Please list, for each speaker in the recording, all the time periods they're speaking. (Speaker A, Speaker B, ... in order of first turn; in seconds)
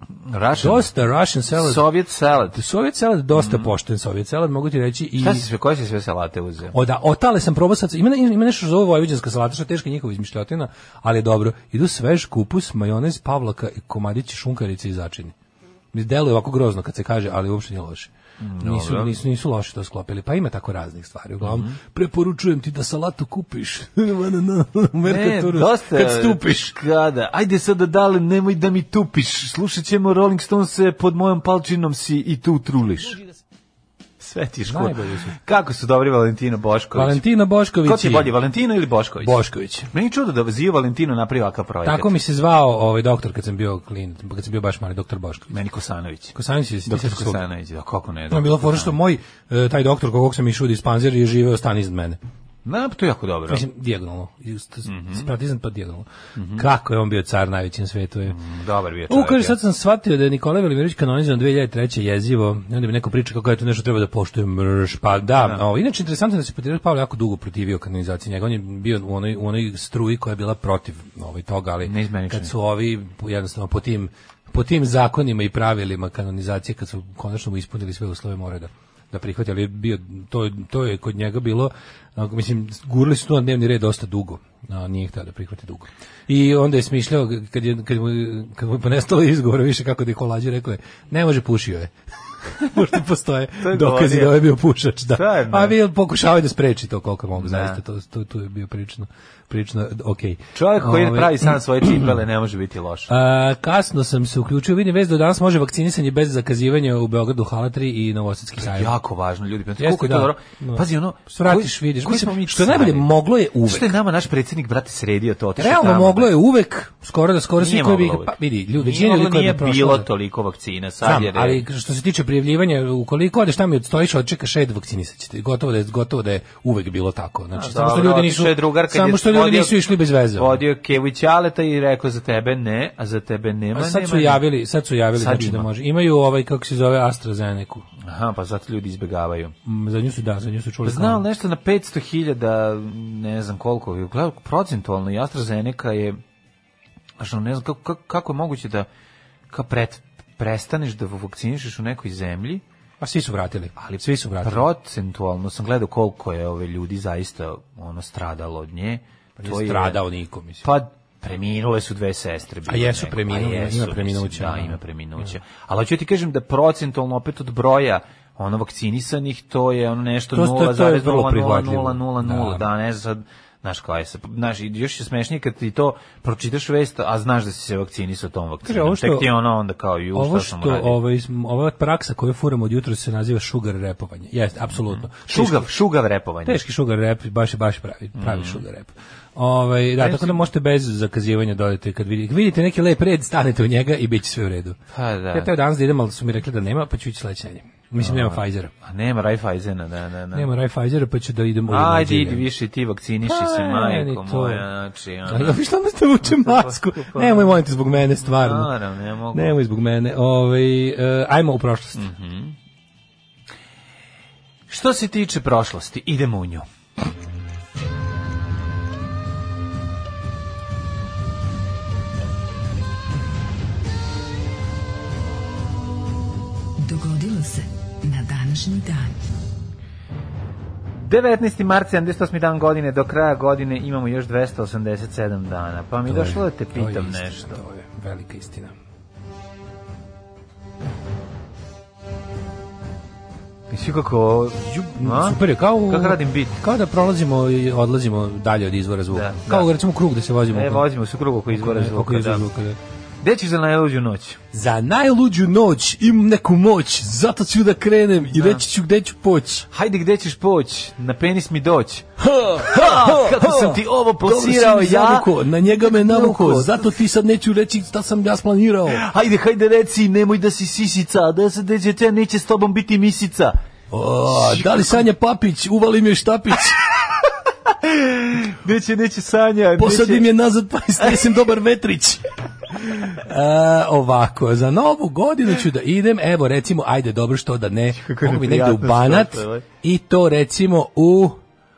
Speaker A: 0.2-0.9, 1.5-2.6, 3.3-3.7, 5.2-6.8, 18.4-19.1, 21.4-21.8, 25.1-33.2, 34.2-37.2, 37.8-39.4, 39.9-42.1, 45.5-46.3, 46.9-49.0, 52.6-53.6, 54.9-55.3, 56.4-56.6, 58.3-59.5, 65.3-65.6, 71.8-72.5, 93.6-94.4, 95.1-95.8, 97.4-97.8, 100.5-103.1, 108.6-113.1, 113.6-116.3, 117.6-121.6, 127.5-129.8, 130.3-134.4, 135.1-135.7, 138.0-139.5, 140.8-146.2, 147.2-148.9, 149.5-152.6, 153.9-160.0, 160.6-181.0, 184.8-186.6, 188.2-188.6, 190.0-190.4, 194.9-195.5, 198.0-200.5, 201.7-205.6, 206.2-207.6, 208.2-209.6, 211.9-212.5, 214.7-216.7, 230.9-237.6, 243.7-246.6, 249.1-249.7, 250.5-252.4, 253.2-254.4, 258.3-258.6, 259.7-266.9, 268.9-273.6, 274.3-275.0, 277.7-280.3, 281.0-281.2, 287.9-289.6
Speaker B: 0.5-1.9, 2.5-5.4, 6.7-15.3, 15.9-26.7, 34.7-35.4, 36.9-38.3, 39.2-39.9, 41.8-45.5, 46.3-47.4, 48.3-52.2, 53.5-58.4, 59.1-91.9, 92.4-102.1, 103.1-108.9, 109.8-113.9, 115.6-120.1, 121.0-130.6, 133.7-137.8, 139.6-141.2, 153.0-154.7, 159.4-160.7, 162.7-165.2, 170.3-172.7, 178.6-179.3, 180.1-185.7, 186.4-194.8, 195.3-198.7, 200.3-202.4, 203.2-204.7, 205.3-208.7, 209.3-212.0, 236.1-238.7, 244.7-250.8, 251.5-252.8, 254.5-259.7, 262.2-269.0, 273.9-276.8, 279.8-291.4
Speaker C: 226.8-229.2